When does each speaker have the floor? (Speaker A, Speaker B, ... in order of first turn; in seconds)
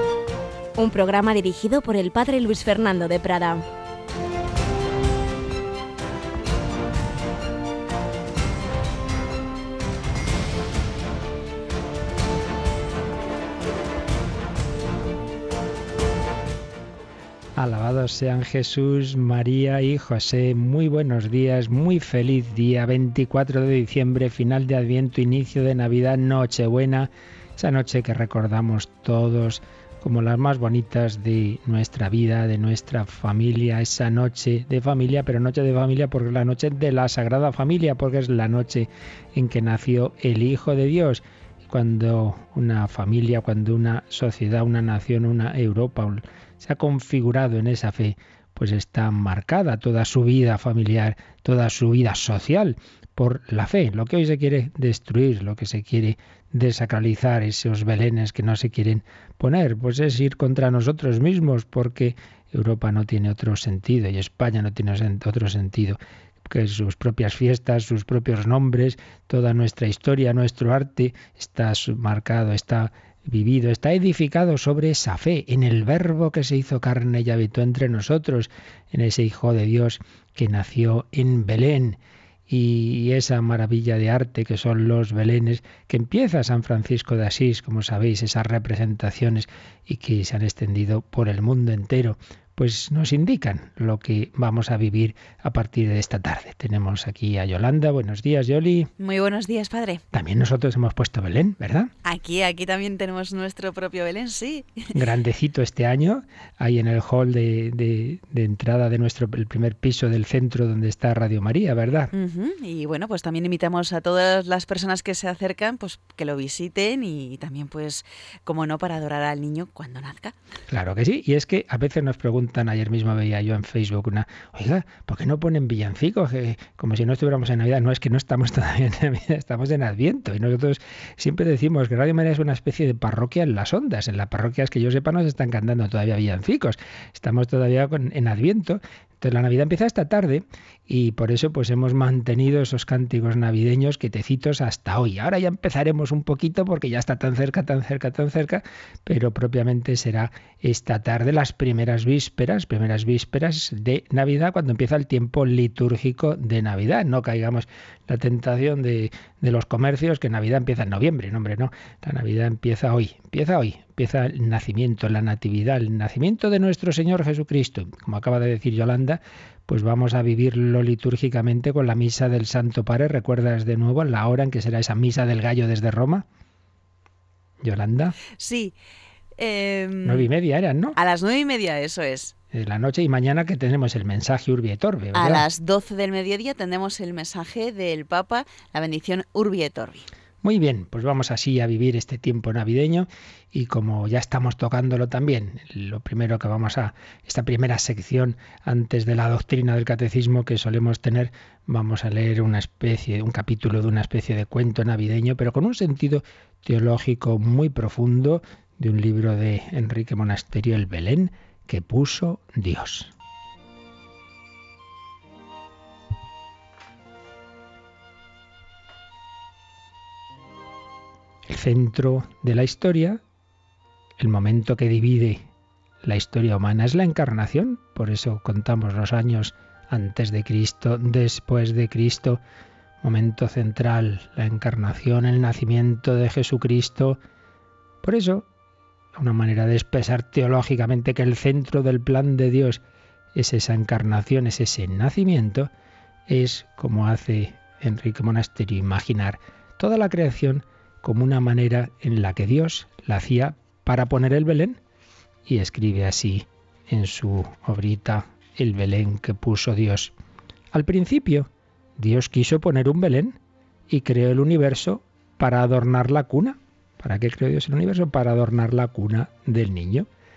Speaker A: 0.8-3.6
Speaker B: 17.6-98.9, 100.1-101.9, 104.9-112.1, 120.7-176.2, 177.6-178.2, 180.0-181.0, 182.5-185.5, 190.4-213.1, 221.5-223.2, 224.2-225.4, 226.0-232.4, 233.0-237.2, 238.0-238.4, 239.1-242.8, 243.3-245.7, 246.3-254.8, 255.4-260.1, 260.7-263.4, 263.9-270.1
Speaker C: 99.0-100.0, 102.0-104.9, 112.1-120.3, 178.3-178.7, 179.4-180.3, 180.9-182.3, 185.1-190.1